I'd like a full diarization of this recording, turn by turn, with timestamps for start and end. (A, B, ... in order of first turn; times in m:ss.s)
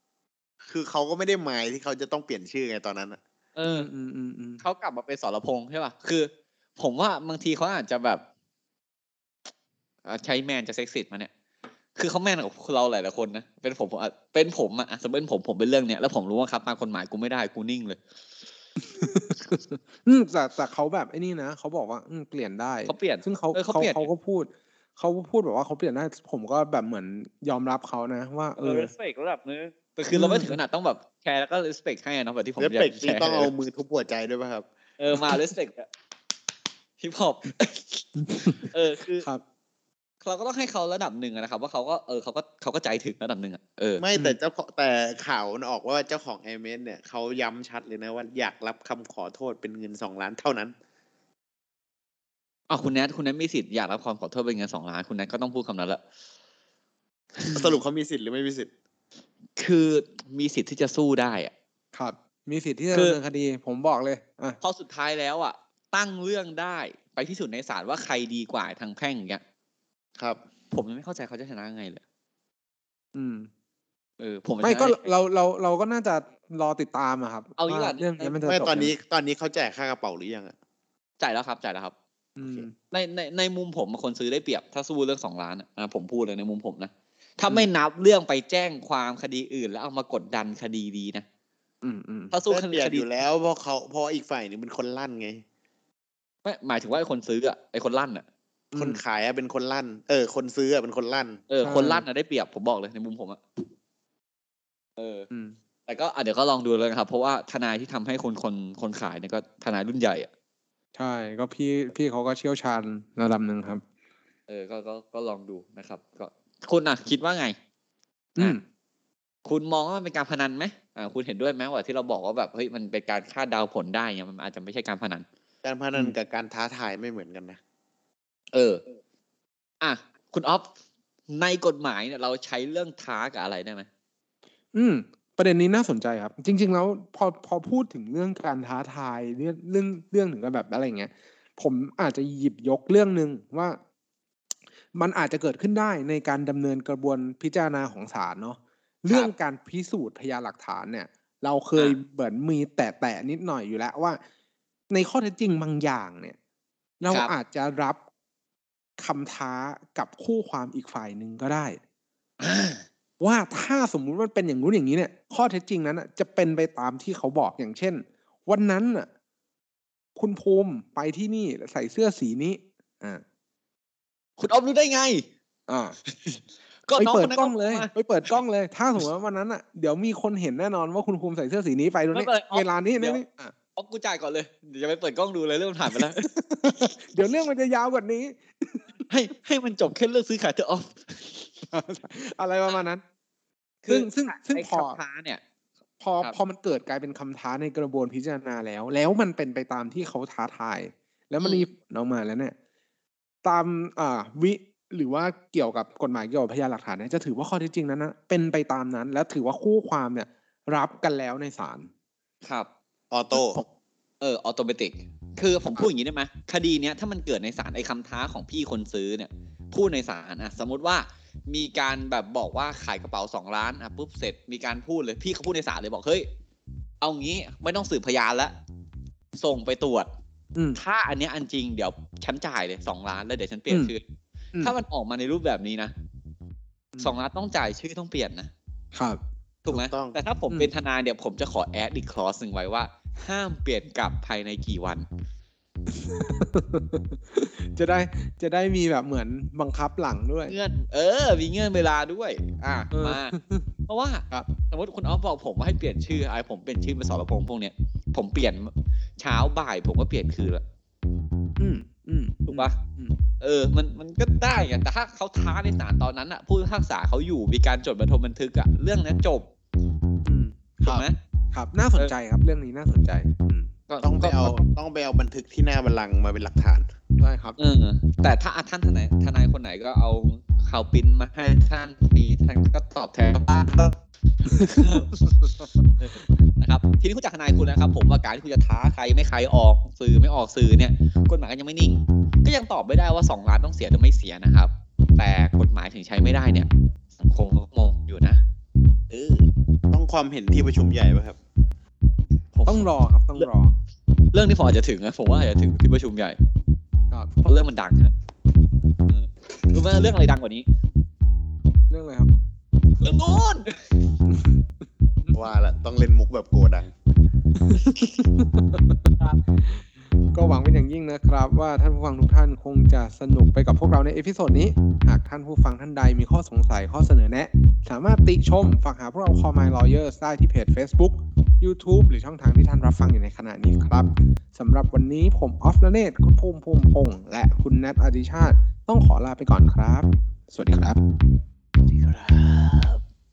0:00.7-0:03.2 A
0:03.6-0:03.9 B
0:03.6-0:04.6 C
0:04.6-0:08.2 B
0:10.1-0:11.3 B
0:12.0-0:18.0 B
0:18.8-0:28.9 C
0:22.9-0:24.1 B
0:28.6-0:33.5 B
0:30.1-0:30.6 C
0:32.6-0:34.6 A
0:35.0-0:35.9 B
0:37.0-0:38.1 B
0:38.2-0:38.7 C
0:38.6-0:39.3 B
0:40.2-0:44.0 B
0:44.0-0:50.8 A
0:52.7-0:56.0 B
0:57.5-0:58.7 A
0:57.5-0:57.8 C
0:59.6-1:01.5 B
1:01.9-1:04.6 C
1:02.9-1:03.2 B
1:04.6-1:09.4 B
1:10.7-1:12.0 B
1:13.2-1:13.5 C
1:14.2-1:15.0 B
1:14.6-1:18.9 C
1:17.6-1:18.9 B
1:18.5-1:20.6 A
1:21.2-1:22.0 B
1:22.4-1:22.7 C
1:22.8-1:31.3 B
1:31.8-1:32.3 C
1:32.3-1:33.1 B
1:32.5-1:35.4 A
1:36.4-1:38.3 B
1:38.7-1:39.0 C
1:38.8-1:41.4 A
1:41.5-1:43.4 B
1:41.6-1:42.0 C
1:45.0-1:45.3 B
1:45.3-1:45.6 C
1:45.9-1:50.3 B
1:51.0-1:53.8 C
1:54.5-1:57.6 B
1:59.5-2:05.3 B
2:05.6-2:07.6 A
2:08.5-2:08.8 B
2:09.8-2:10.7 B
2:11.3-2:13.9 B
2:14.7-2:23.8 C
2:25.0-2:34.2 C
2:34.9-2:36.4 C
2:37.0-2:38.0 C
2:39.0-2:41.8 C
2:42.4-2:42.8 B
2:43.2-2:49.1 C
2:50.2-2:53.2 C
2:54.4-2:55.3 B
2:55.7-2:56.0 C
2:56.1-2:57.9 B
2:56.9-3:03.5 C
3:02.1-3:03.2 B
3:03.8-3:06.3 B
3:06.0-3:08.9 C
3:09.1-3:11.7 B
3:11.7-3:13.0 C
3:13.8-3:15.4 B
3:13.9-3:15.0 C
3:16.0-3:22.6 C
3:21.4-3:21.7 B
3:23.4-3:31.9 C
3:32.4-3:32.7 B
3:33.1-3:33.6 A
3:33.3-3:33.6 C
3:34.2-3:46.3 B
3:47.0-3:48.6 B
3:49.4-3:50.1 B
3:50.8-3:54.0 B
3:54.6-3:55.9 B
3:57.0-3:58.5 B
3:58.9-3:59.2 C
3:59.6-4:05.1 B
3:59.7-4:00.2 A
4:05.9-4:10.6 C
4:10.5-4:13.4 B
4:12.9-4:13.7 C
4:13.9-4:20.6 B
4:21.6-4:23.2 C
4:22.5-4:22.8 B
4:23.4-4:29.5 B
4:30.2-4:33.7 C
4:30.8-4:31.2 B
4:33.9-4:34.6 B
4:34.0-4:36.9 A
4:37.2-4:37.6 C
4:37.6-4:45.3 B
4:45.4-4:45.8 C
4:46.0-4:56.7 B
4:57.2-4:58.4 B
4:59.1-4:59.4 B
4:59.9-5:01.4 A
5:02.5-5:03.5 B
5:02.7-5:03.7 C
5:04.3-5:06.4 B
5:07.4-5:08.1 B
5:09.1-5:10.7 B
5:11.9-5:12.3 C
5:13.0-5:13.9 B
5:14.3-5:14.6 C
5:15.3-5:16.9 A
5:17.6-5:19.1 C
5:19.7-5:41.0 C
5:41.9-5:43.0 B